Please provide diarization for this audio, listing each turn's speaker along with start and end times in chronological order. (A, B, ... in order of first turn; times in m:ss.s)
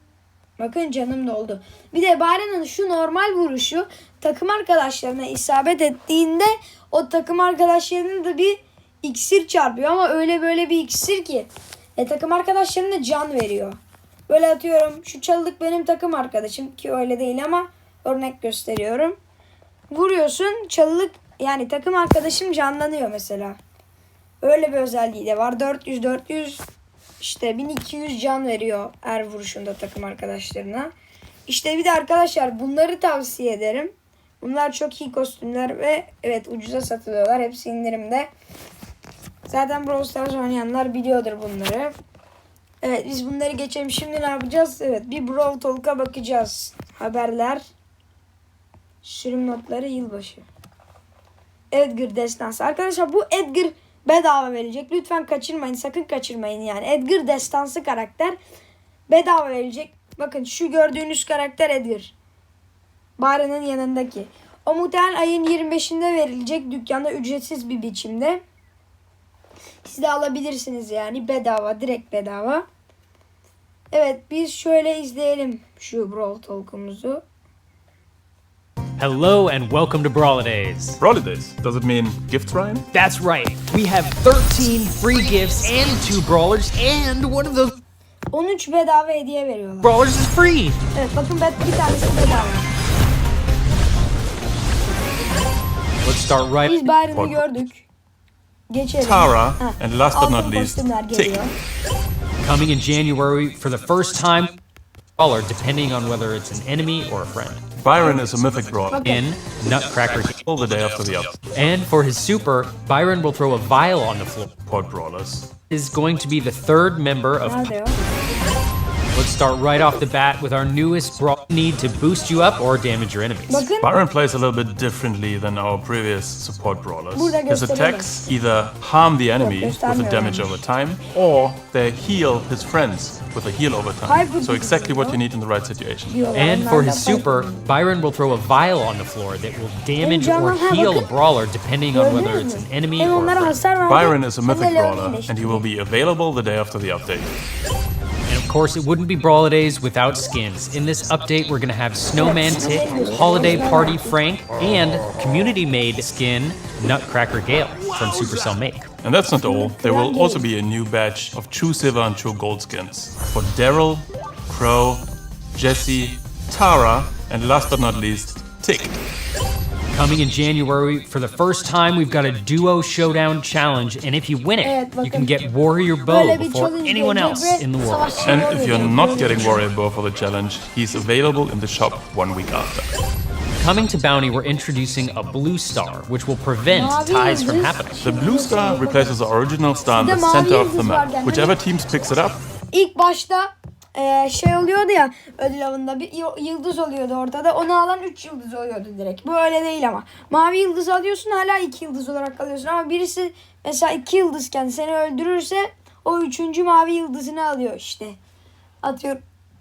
0:00.6-0:19.2 A
0:19.9-0:23.6 A
0:24.4-0:26.6 A
0:27.2-0:30.9 A
0:31.5-0:38.3 A
0:39.5-0:41.9 A
0:42.8-0:47.6 A
0:49.0-0:50.4 A
0:51.7-0:58.4 A
0:59.1-1:02.1 A
1:03.2-1:08.4 A
1:09.8-1:12.7 A
1:13.9-1:17.2 A
1:19.0-1:21.0 B
1:21.0-1:22.9 C
1:22.9-1:27.8 B
1:28.3-1:30.0 A
1:29.8-1:30.8 B
1:30.9-1:32.7 A
1:36.0-1:36.8 B
1:36.6-1:37.9 A
1:37.1-1:37.4 C
1:38.7-1:41.5 A
1:39.0-1:41.5 C
1:42.4-1:44.6 B
1:45.2-1:47.6 B
1:47.8-1:49.1 C
1:48.0-1:48.3 A
1:48.9-1:49.2 A
1:49.0-1:50.4 B
1:50.3-1:51.4 C
1:51.5-1:54.5 B
1:54.6-1:55.5 C
1:55.7-1:57.6 B
1:57.4-1:58.0 A
1:59.1-2:03.7 B
2:03.5-2:03.9 A
2:03.8-2:16.2 C
2:07.1-2:08.3 A
2:09.4-2:10.6 A
2:14.0-2:15.2 A
2:16.1-2:17.7 A
2:16.3-2:23.6 B
2:20.0-2:21.1 A
2:21.9-2:25.7 A
2:23.8-2:27.4 C
2:28.3-2:38.9 B
2:32.2-2:34.2 A
2:39.0-2:49.0 C
2:39.4-2:40.4 A
2:49.9-2:59.2 B
2:54.6-2:55.4 A
2:56.0-2:59.6 A
2:58.2-3:02.9 C
3:03.6-3:08.1 B
3:06.7-3:09.2 A
3:08.0-3:12.4 C
3:10.0-3:11.6 A
3:12.7-3:28.2 A
3:28.8-3:29.2 A